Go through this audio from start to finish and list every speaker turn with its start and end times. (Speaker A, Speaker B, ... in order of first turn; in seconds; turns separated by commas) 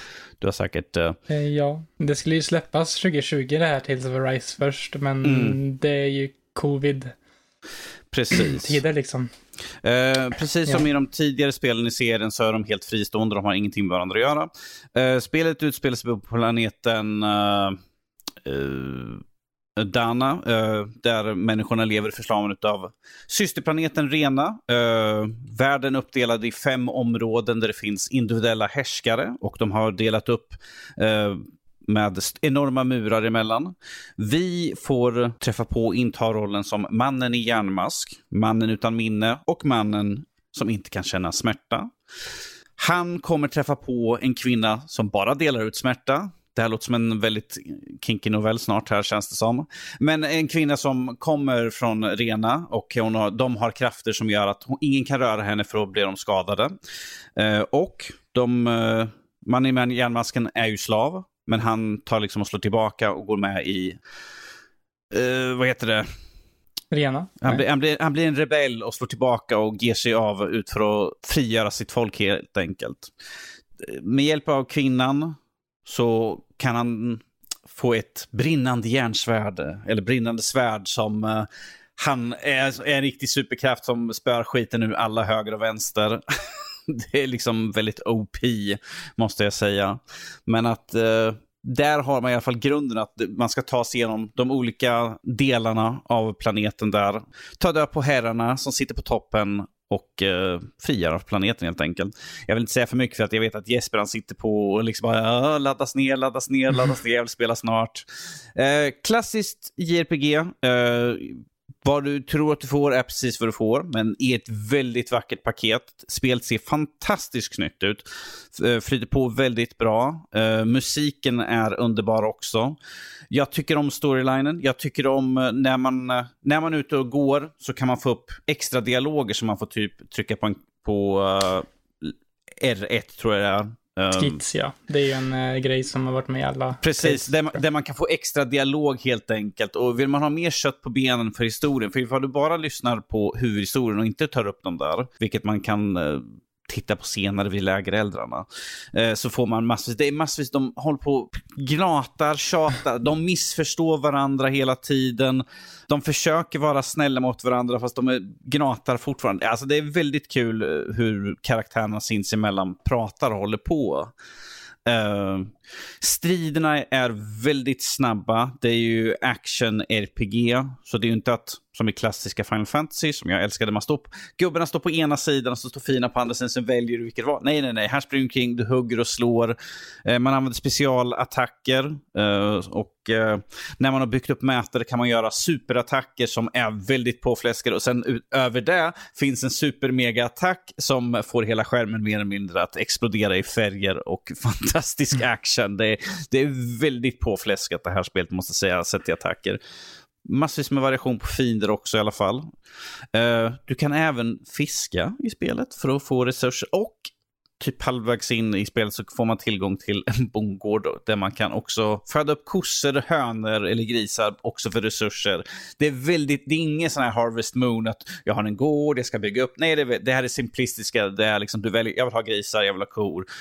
Speaker A: 0.4-1.2, Speaker B: 1.3-7.1, Speaker A: 5.2-5.6, Speaker A: 8.1-8.8, Speaker B: 8.3-9.3, Speaker A: 9.8-17.8, Speaker A: 18.4-19.2, Speaker A: 19.8-41.9, Speaker A: 42.8-56.8, Speaker A: 57.4-64.0, Speaker A: 65.1-66.1, Speaker B: 66.9-67.6, Speaker A: 67.4-73.1, Speaker A: 73.8-86.2, Speaker A: 86.9-122.8, Speaker A: 123.3-134.4, Speaker B: 134.2-137.3, Speaker A: 136.8-164.1, Speaker A: 164.9-199.6, Speaker A: 200.2-202.5, Speaker A: 203.1-223.3